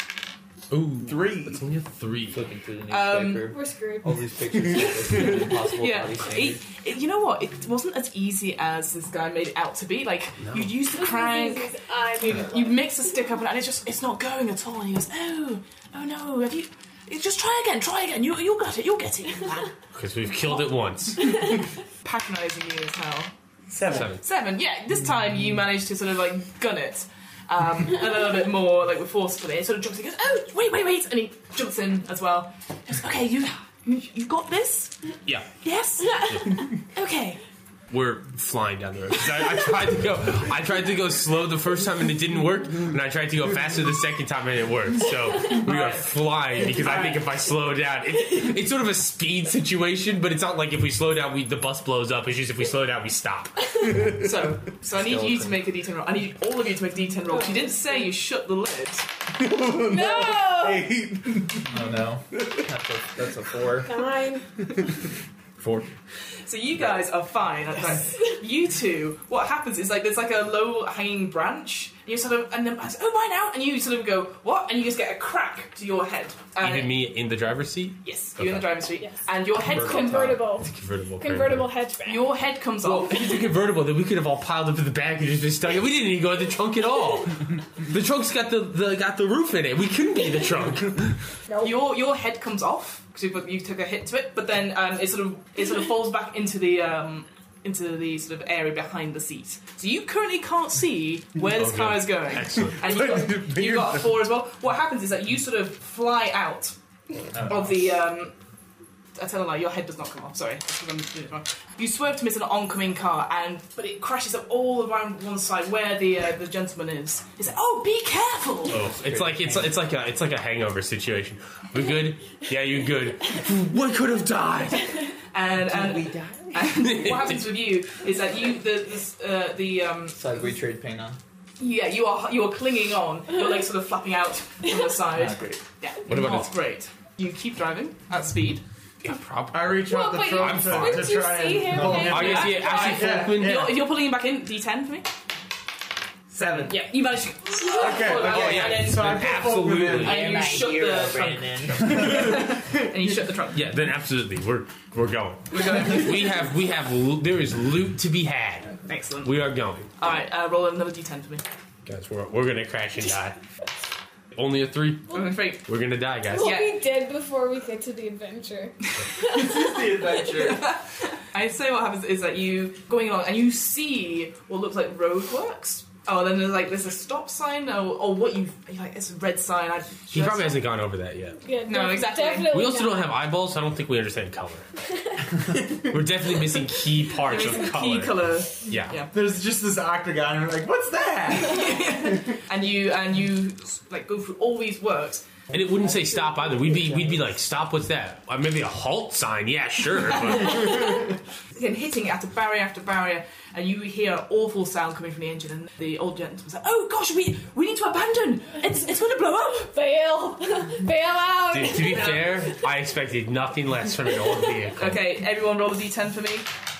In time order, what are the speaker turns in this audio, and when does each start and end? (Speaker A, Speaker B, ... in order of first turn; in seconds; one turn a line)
Speaker A: 0.7-2.4
Speaker B: 1.0-1.6
Speaker C: 2.3-6.6
Speaker D: 2.9-3.5
Speaker E: 3.5-4.2
Speaker D: 5.6-19.7
Speaker A: 10.4-10.7
Speaker E: 10.9-12.9
Speaker A: 19.9-21.4
Speaker D: 22.0-23.3
Speaker B: 23.7-24.1
Speaker A: 23.9-24.2
Speaker D: 24.0-34.9
Speaker A: 35.2-35.5
Speaker D: 35.6-37.4
Speaker A: 37.9-54.0
Speaker D: 45.5-47.2
Speaker D: 54.1-59.1
Speaker C: 54.9-55.6
Speaker E: 57.4-57.7
Speaker B: 59.4-61.8
Speaker E: 59.8-60.9
Speaker C: 61.7-64.0
Speaker B: 62.3-62.6
Speaker E: 63.8-64.5
Speaker A: 65.6-65.9
Speaker D: 66.5-77.0
Speaker A: 76.6-78.8
Speaker D: 78.0-80.4
Speaker A: 79.7-81.7
Speaker E: 79.7-82.3
Speaker D: 82.0-83.5
Speaker A: 82.8-91.2
Speaker E: 91.5-91.7
Speaker D: 91.6-106.7
Speaker A: 101.5-102.8
Speaker B: 102.7-104.2
Speaker C: 107.3-107.9
Speaker D: 107.5-108.3
Speaker D: 109.2-118.8
Speaker A: 118.7-125.0
Speaker C: 118.8-119.8
Speaker D: 125.3-130.2
Speaker C: 125.7-126.6
Speaker A: 126.7-127.4
Speaker C: 130.1-131.2
Speaker D: 131.6-138.6
Speaker C: 135.1-135.6
Speaker A: 136.1-136.5
Speaker A: 139.0-141.2
Speaker B: 139.5-143.8
Speaker E: 139.8-142.7
Speaker C: 141.7-142.2
Speaker A: 141.8-143.7
Speaker D: 142.1-145.1
Speaker B: 146.3-146.8
Speaker D: 146.6-153.7
Speaker B: 147.7-150.5
Speaker A: 148.2-150.5
Speaker C: 148.3-148.6
Speaker C: 150.0-152.4
Speaker B: 151.9-153.0
Speaker A: 153.5-159.9
Speaker D: 155.5-156.4
Speaker D: 158.9-159.4
Speaker D: 160.0-161.4
Speaker A: 161.8-163.4
Speaker A: 164.3-166.6
Speaker D: 165.1-165.7
Speaker E: 166.3-169.8
Speaker D: 166.4-166.7
Speaker B: 169.2-170.7
Speaker D: 170.2-180.7
Speaker A: 180.1-181.4
Speaker E: 181.4-183.1
Speaker D: 181.7-182.5
Speaker A: 182.5-184.7
Speaker B: 185.5-185.9
Speaker A: 185.9-189.0
Speaker D: 187.2-189.1
Speaker B: 189.1-192.2
Speaker D: 191.3-195.2
Speaker A: 195.5-200.9
Speaker C: 196.8-197.1
Speaker D: 200.4-200.8
Speaker D: 201.5-209.7
Speaker E: 209.6-212.4
Speaker A: 211.5-215.0
Speaker D: 211.8-212.3
Speaker D: 214.8-216.5